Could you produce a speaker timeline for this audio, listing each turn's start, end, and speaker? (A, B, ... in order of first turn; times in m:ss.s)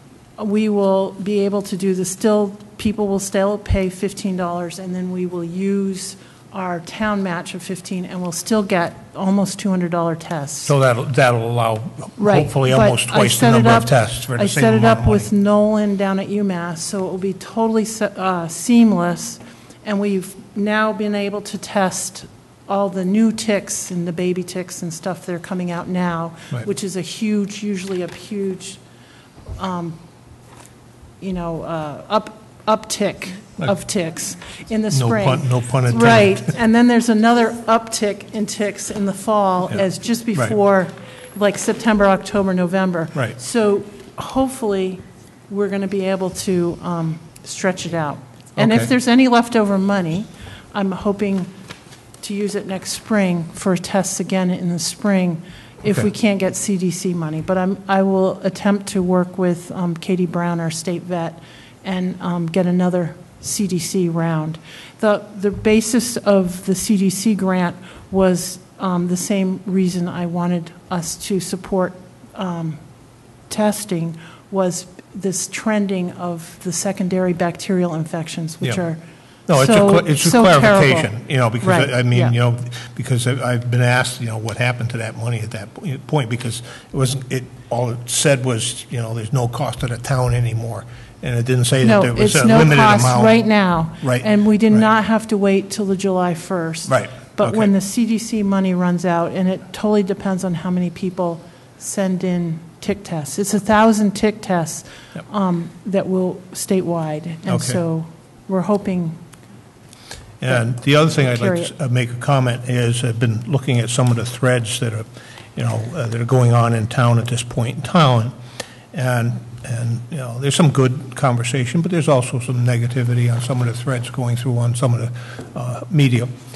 0:00.4-0:10.8 A
0:10.6-0:15.3 B
0:12.2-0:29.0 A
0:29.5-0:30.4 A
0:31.2-0:51.5 A
0:34.9-0:36.5 B
0:39.7-0:40.6 B
0:48.6-0:48.9 B
0:52.1-1:22.4 A
1:18.6-1:34.9 B
1:31.8-1:49.3 A
1:36.8-1:37.7 B
1:47.4-1:47.8 B
1:50.4-1:58.4 B
1:50.5-1:51.7 A
1:58.9-2:06.4 B